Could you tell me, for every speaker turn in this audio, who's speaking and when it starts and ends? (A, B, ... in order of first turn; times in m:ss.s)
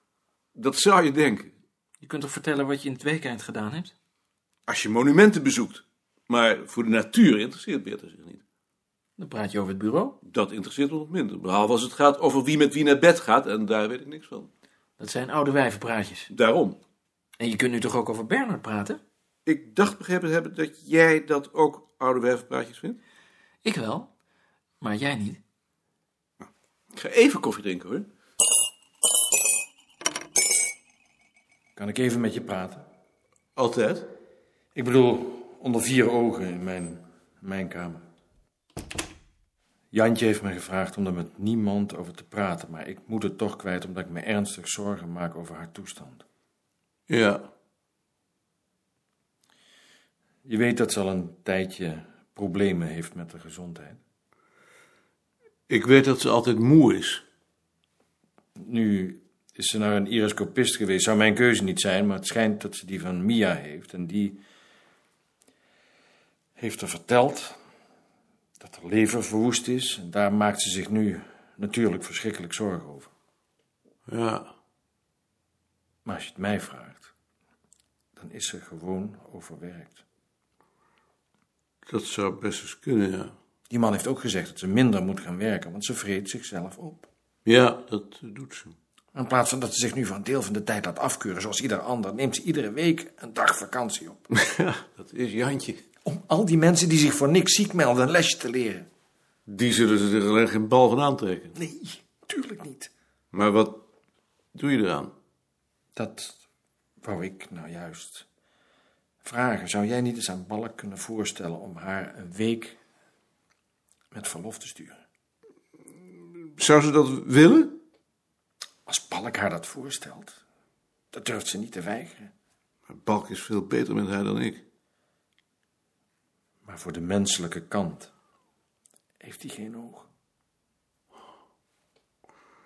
0:00.6-0:01.5 A
0:02.0-0:03.9 B
0:04.7-0:08.4 A
0:09.2-0:10.2 B
0:10.2-0:14.5 A
0:15.0-0:16.3 B
0:16.3-0:16.8 A
0:17.4-0:19.0 B
0:19.5-0:23.0 A
0:23.6-0:24.1 B
0:24.8-0:25.4 B
0:26.9-0:28.1 A
0:31.8-0:32.9 C
0:33.6-0:34.1 A
0:34.8-0:38.1 C
0:39.9-0:46.2 C
0:47.1-0:47.4 A
0:50.4-0:54.0 C
0:55.7-0:57.2 A
0:58.6-1:04.4 C
1:06.6-1:07.6 C
1:08.6-1:13.1 C
1:14.1-1:14.5 A
1:16.0-1:17.1 C
1:18.2-1:20.0 C
1:21.9-1:23.3 A
1:23.7-1:27.1 C
1:27.4-1:28.8 A
1:29.1-1:34.2 C
1:34.4-1:35.8 A
1:36.0-1:38.9 C
1:39.5-1:41.5 A
1:41.6-1:42.9 C
1:43.3-1:43.8 A
1:44.6-1:45.1 A
1:46.0-1:46.4 C
1:47.0-1:48.3 C
1:49.2-1:52.8 C
1:54.1-1:55.0 C
1:56.6-1:57.8 A
1:58.9-2:00.4 C
2:01.1-2:02.3 C
2:02.9-2:04.6 A
2:06.6-2:08.1 C
2:09.2-2:10.1 C